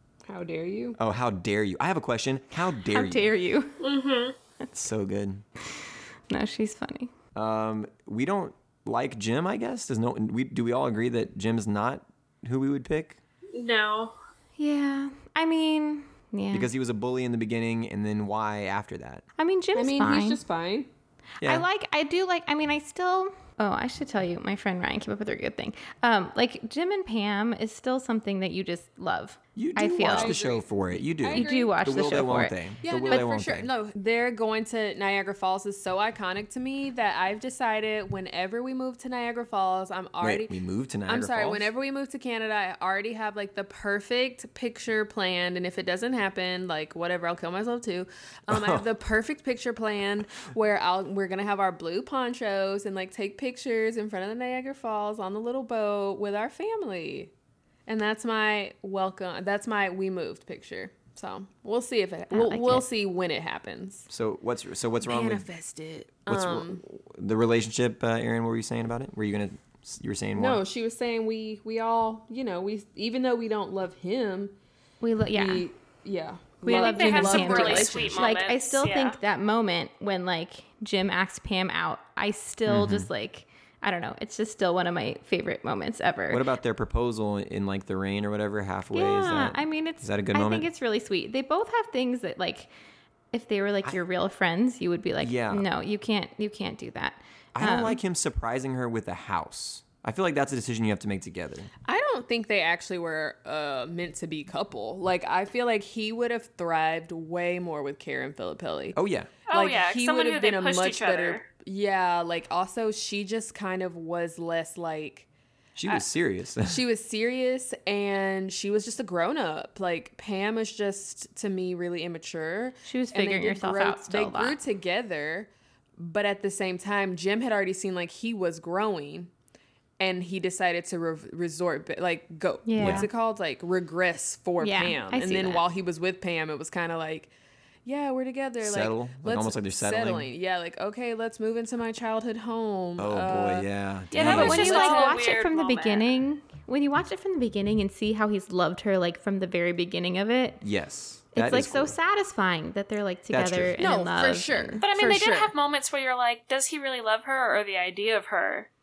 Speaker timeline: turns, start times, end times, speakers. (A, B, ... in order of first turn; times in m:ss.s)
0:00.3-0:01.0 A
0:01.0-0:03.3 B
0:02.9-0:03.8 C
0:03.8-0:04.4 D
0:04.7-0:05.4 B
0:06.3-0:07.1 C
0:07.3-0:13.2 B
0:13.5-0:14.1 D
0:14.6-0:16.7 C
0:16.5-0:19.2 B
0:19.4-0:20.4 C
0:19.7-0:20.9 A
0:21.4-0:30.4 C
0:29.6-0:33.7 B
0:30.0-0:32.1 A
0:31.2-0:32.6 C
0:32.8-0:40.5 A
0:40.2-0:41.7 B
0:41.1-0:57.3 A
0:48.5-0:48.8 B
0:57.9-1:04.1 A
1:02.3-1:02.8 C
1:04.1-1:05.5 B
1:05.0-1:06.8 A
1:06.3-1:10.6 B
1:10.4-1:14.6 A
1:15.0-1:15.7 C
1:15.3-1:18.4 A
1:16.6-1:26.5 C
1:16.6-1:19.2 D
1:22.7-1:23.1 B
1:26.3-1:30.7 B
1:28.9-1:32.7 C
1:33.3-1:38.0 C
1:35.2-1:35.6 B
1:37.5-1:41.7 B
1:41.8-1:49.0 A
1:48.9-1:49.3 B
1:49.5-1:51.5 D
1:49.5-1:55.3 A
1:55.8-1:56.8 B
1:56.6-2:09.3 A
2:02.9-2:04.6 C
2:10.0-2:17.3 A
2:12.7-2:13.1 C
2:12.8-2:13.1 B
2:14.6-2:15.6 C
2:17.8-2:25.2 A
2:18.6-2:20.3 B
2:23.0-2:24.7 B
2:24.1-2:26.1 D
2:24.2-2:30.6 C
2:30.6-2:31.9 B
2:31.3-2:34.8 C
2:33.3-2:33.8 B
2:33.8-2:35.5 A
2:34.8-2:38.7 D